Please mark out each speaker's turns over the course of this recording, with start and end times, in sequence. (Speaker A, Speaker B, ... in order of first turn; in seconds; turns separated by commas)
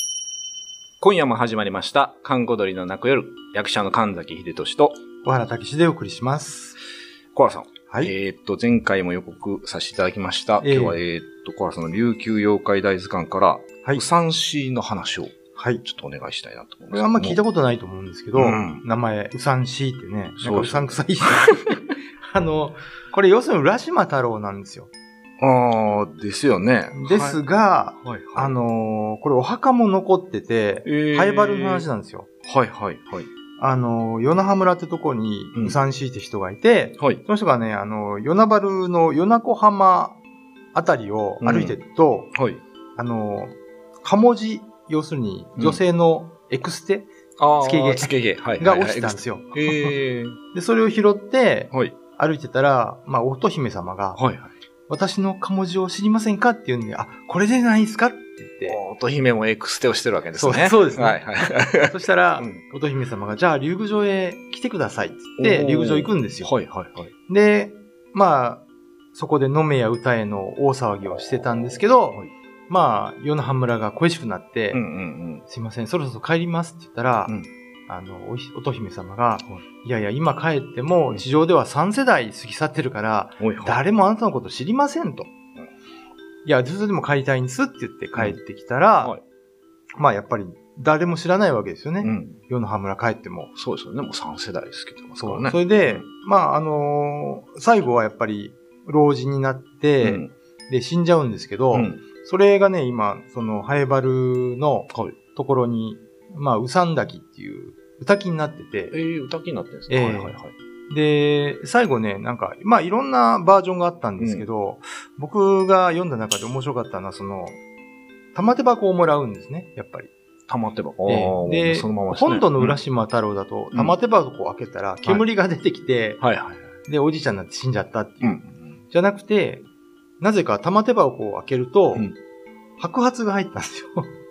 Speaker A: 1.0-5.0, Speaker B: 5.2-6.8, Speaker A: 7.3-17.4, Speaker B: 7.9-8.1, Speaker B: 10.6-11.0, Speaker B: 15.5-15.8, Speaker B: 16.9-24.9, Speaker A: 18.3-18.8, Speaker A: 20.4-21.7, Speaker A: 25.4-27.4, Speaker B: 26.9-32.3, Speaker A: 28.0-28.6, Speaker A: 30.8-31.9, Speaker A: 32.4-33.3, Speaker B: 33.6-40.2, Speaker B: 40.7-42.3, Speaker A: 41.4-41.8, Speaker A: 42.3-42.6, Speaker B: 43.0-50.0, Speaker A: 47.4-50.4, Speaker B: 50.5-54.2, Speaker A: 51.7-52.0, Speaker A: 54.1-54.5, Speaker B: 54.9-58.8, Speaker A: 58.6-62.6, Speaker B: 60.3-66.5, Speaker A: 65.4-67.1, Speaker B: 67.3-74.8, Speaker A: 74.7-75.5, Speaker B: 75.5-77.3, Speaker B: 77.9-85.3, Speaker A: 83.4-83.8, Speaker B: 86.4-89.2, Speaker B: 90.0-93.5, Speaker A: 92.0-92.4, Speaker A: 93.5-96.0, Speaker B: 95.2-108.9, Speaker A: 100.0-100.3, Speaker A: 101.7-102.0, Speaker A: 104.9-105.1, Speaker A: 108.9-110.5, Speaker B: 109.9-117.6, Speaker A: 114.2-114.4, Speaker B: 118.3-120.1, Speaker A: 120.5-122.8, Speaker B: 121.0-126.2, Speaker A: 126.2-126.7, Speaker B: 126.9-129.7, Speaker A: 128.2-128.8, Speaker B: 130.2-132.1, Speaker B: 132.8-134.1